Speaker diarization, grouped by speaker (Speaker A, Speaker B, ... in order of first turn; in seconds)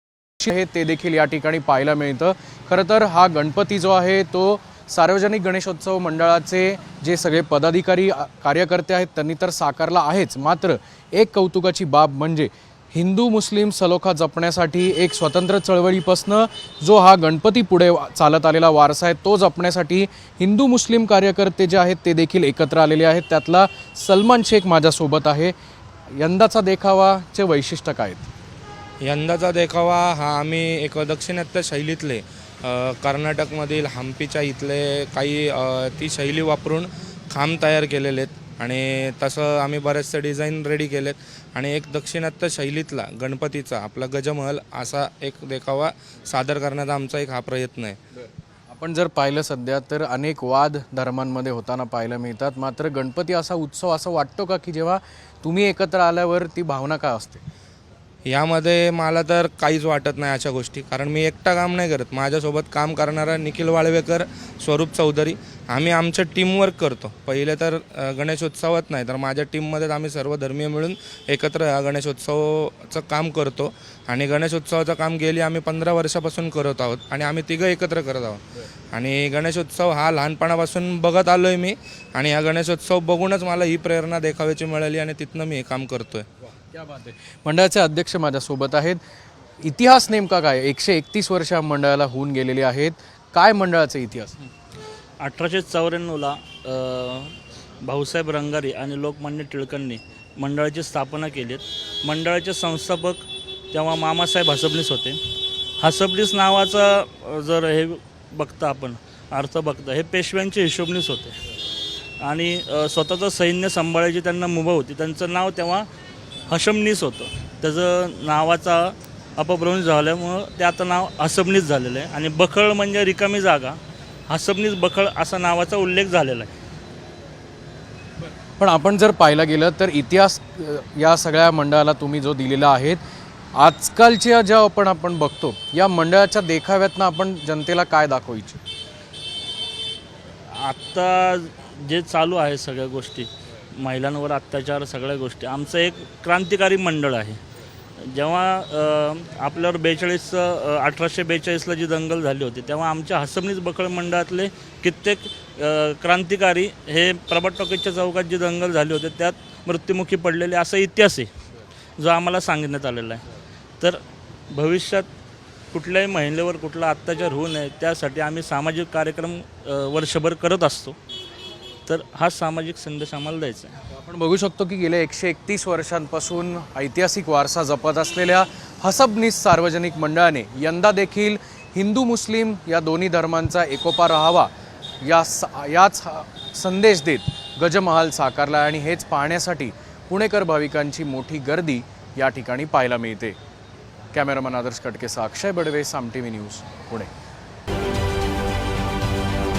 Speaker A: 0.4-25.5, 26.2-28.3, 48.7-57.4, 86.7-89.0, 89.6-94.4, 128.4-133.0, 133.6-138.6, 173.9-184.5, 185.0-193.4, 194.1-197.1
Speaker B: 29.0-48.0, 58.3-78.4, 78.9-86.2
Speaker C: 95.2-105.2, 105.8-111.4, 112.2-115.9, 116.5-126.5, 140.5-147.4, 148.0-161.3, 162.0-163.2, 163.8-165.1, 165.7-171.0, 171.9-173.8